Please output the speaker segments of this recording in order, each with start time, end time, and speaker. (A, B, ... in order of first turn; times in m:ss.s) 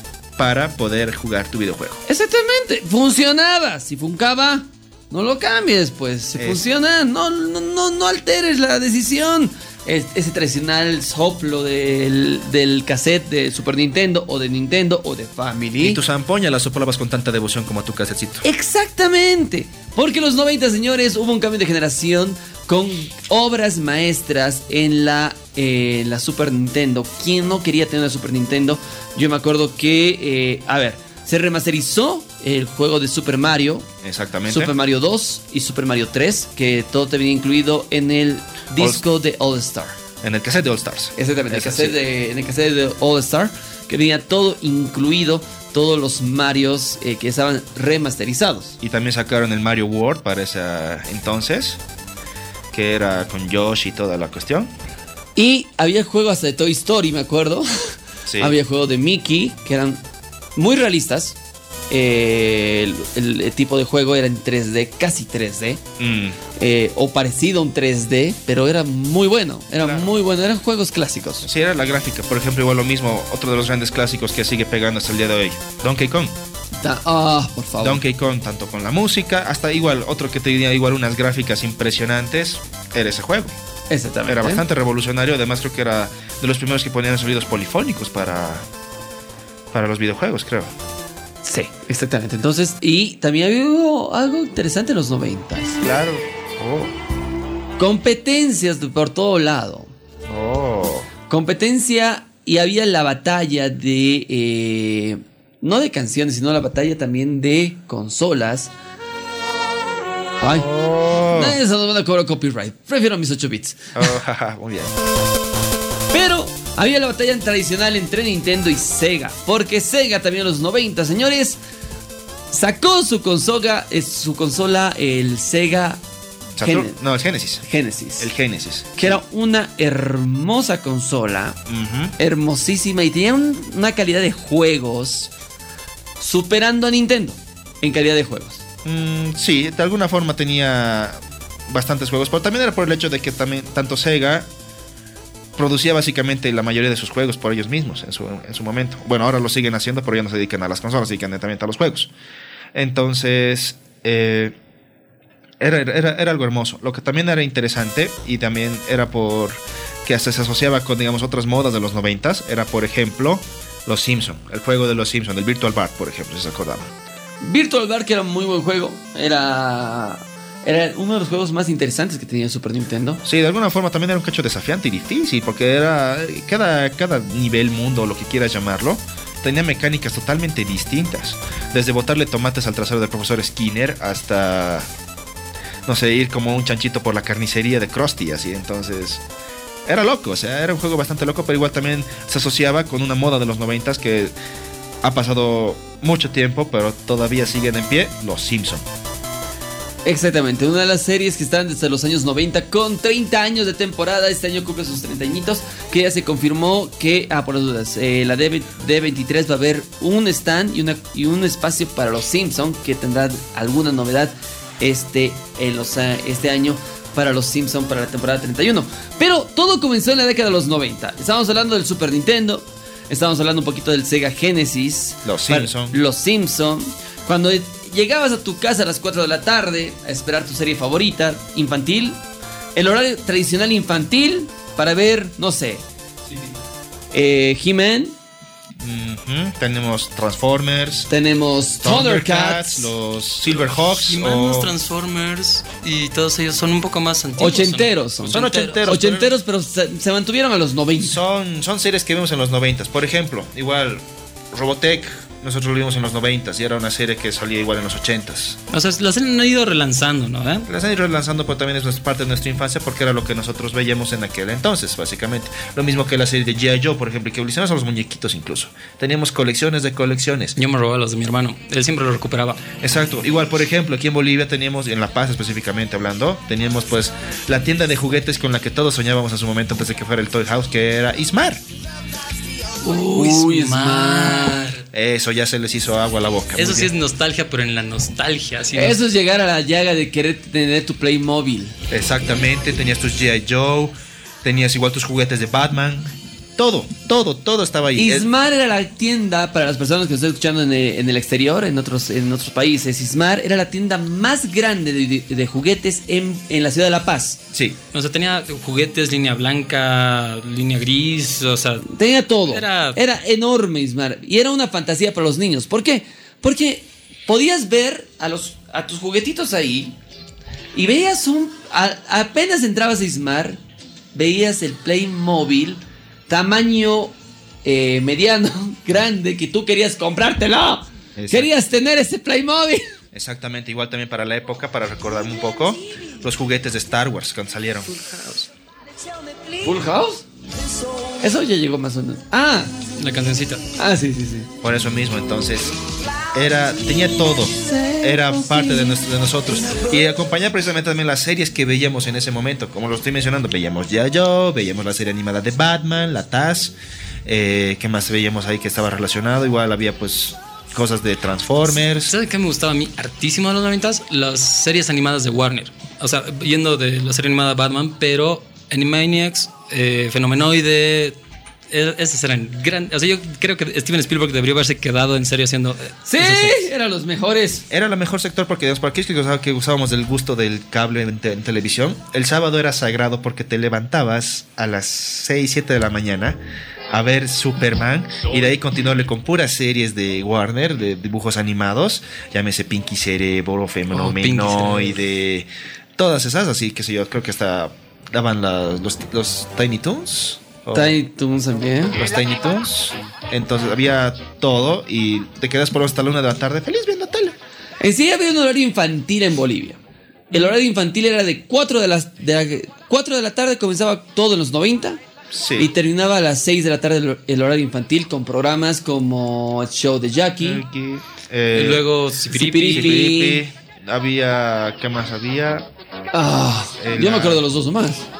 0:00.4-0:02.0 A
0:02.1-0:16.0 B
0:06.4-0:06.6 A
0:15.8-0:18.5 A
0:18.4-0:33.9 B
0:34.0-0:34.7 A
0:34.5-0:40.0 B
0:38.8-0:39.0 A
0:40.2-0:42.0 A
0:41.2-0:48.8 B
0:48.8-0:51.8 A
0:52.7-0:54.7 A
0:55.4-1:00.0 B
0:58.3-0:58.6 A
1:00.6-1:01.4 B
1:01.9-1:05.8 B
1:06.0-1:06.4 A
1:06.6-1:11.5 B
1:09.8-1:10.1 A
1:11.4-1:16.4 A
1:16.8-1:18.0 B
1:17.8-1:23.6 A
1:23.9-1:24.6 B
1:24.3-1:28.7 A
1:29.7-1:30.7 A
1:31.4-1:35.8 B
1:35.8-1:36.9 A
1:37.8-1:39.9 B
1:40.3-1:41.1 A
1:41.3-1:48.7 B
1:50.4-1:50.7 B
1:50.6-1:51.6 A
1:51.3-1:54.1 B
1:54.0-1:54.9 A
1:56.1-2:01.6 B
2:02.5-2:06.0 B
2:06.6-2:07.6 A
2:06.6-2:07.0 B
2:07.6-2:08.3 B
2:08.2-2:09.2 A
2:09.0-2:11.6 B
2:11.7-2:12.1 A
2:12.2-2:15.3 B
2:16.2-2:18.6 B
2:18.8-2:24.5 A
2:25.6-2:32.1 A
2:32.7-2:34.6 A
2:35.6-2:46.9 A
2:47.4-2:53.2 B
2:53.2-3:04.9 A
3:05.9-3:09.2 A
3:09.9-3:14.3 A
3:15.0-3:18.8 A
3:20.0-3:52.2 B
3:45.2-3:46.0 A
3:52.8-3:55.8 B
3:57.1-3:58.2 B
3:58.8-4:01.1 A
4:01.1-4:02.9 B
4:01.8-4:04.7 A
4:04.0-4:08.9 C
4:07.4-4:11.2 B
4:08.3-4:09.3 A
4:11.0-4:18.6 A
4:18.7-4:20.7 C
4:20.7-4:30.6 A
4:30.6-4:32.6 C
4:32.8-4:41.6 A
4:42.9-4:44.7 B
4:42.9-4:44.8 C
4:44.9-4:46.9 A
4:46.6-4:49.0 C
4:48.8-4:51.8 B
4:51.9-4:58.3 A
4:58.0-5:07.4 B
5:07.5-5:07.8 A
5:07.9-5:11.9 C
5:11.9-5:20.0 B
5:12.5-5:13.0 C
5:20.7-5:23.6 B
5:24.1-5:32.9 B
5:31.2-5:31.5 A
5:33.1-5:38.5 A
5:39.6-5:40.2 B
5:41.2-5:42.7 B
5:43.0-5:43.7 C
5:43.8-5:44.5 B
5:44.6-5:45.8 A
5:46.3-5:56.7 A
5:47.6-5:49.0 B
5:57.3-6:02.1 A
6:02.1-6:11.2 C
6:11.7-6:16.7 C
6:16.1-6:17.6 B
6:17.7-6:26.4 A
6:26.9-6:41.0 A
6:33.9-6:35.0 C
6:40.7-6:42.0 B
6:41.9-6:47.4 A
6:47.8-6:49.8 B
6:50.3-6:55.0 B
6:55.3-6:55.7 A
6:55.6-7:00.6 B
7:00.4-7:01.9 A
7:01.5-7:03.1 C
7:02.3-7:03.4 B
7:02.7-7:05.7 A
7:06.1-7:08.1 B
7:06.8-7:07.4 A